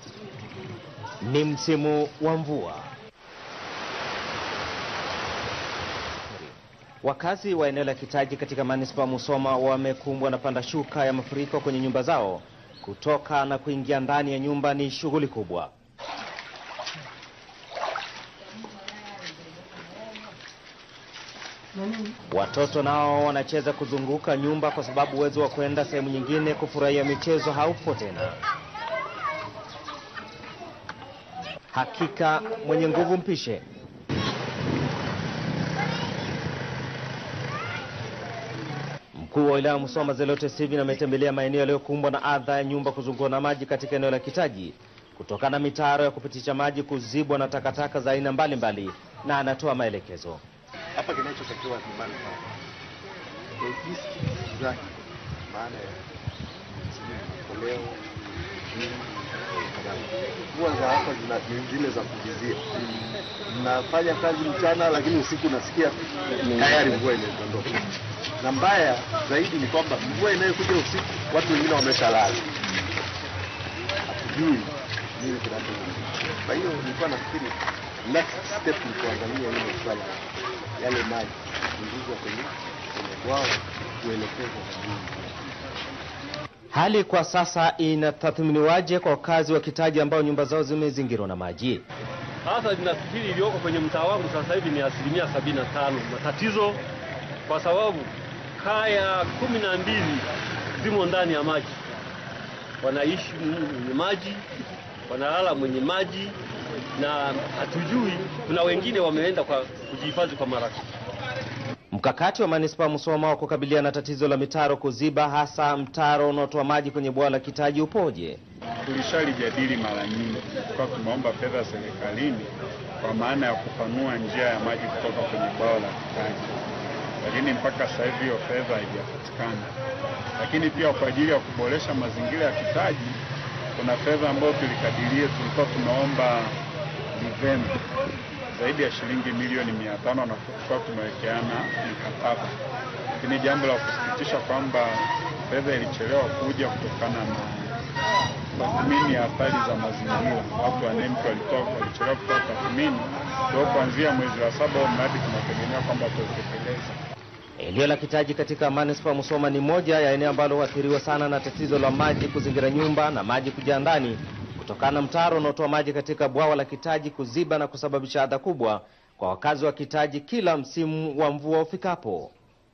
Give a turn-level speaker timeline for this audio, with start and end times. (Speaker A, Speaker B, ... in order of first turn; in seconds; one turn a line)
Speaker A: 1.2-2.9
Speaker A: 6.2-15.7
Speaker A: 22.3-28.4
Speaker A: 31.7-33.6
Speaker A: 39.1-50.4
Speaker B: 50.9-52.4
Speaker B: 53.6-54.9
Speaker B: 55.5-56.0
Speaker B: 56.9-72.5
Speaker C: 66.5-66.7
Speaker B: 74.1-80.2
Speaker B: 80.8-85.5
Speaker A: 86.7-91.8
Speaker C: 92.4-96.8
Speaker C: 97.5-101.8
Speaker C: 102.8-104.5
Speaker C: 105.1-106.4
Speaker C: 107.0-110.8
Speaker A: 111.9-118.4
Speaker D: 118.8-126.6
Speaker D: 127.2-129.7
Speaker D: 130.3-133.2
Speaker D: 133.7-136.6
Speaker D: 137.1-137.8
Speaker D: 138.5-142.5
Speaker D: 143.2-147.7
Speaker D: 148.5-157.0
Speaker A: 157.6-172.3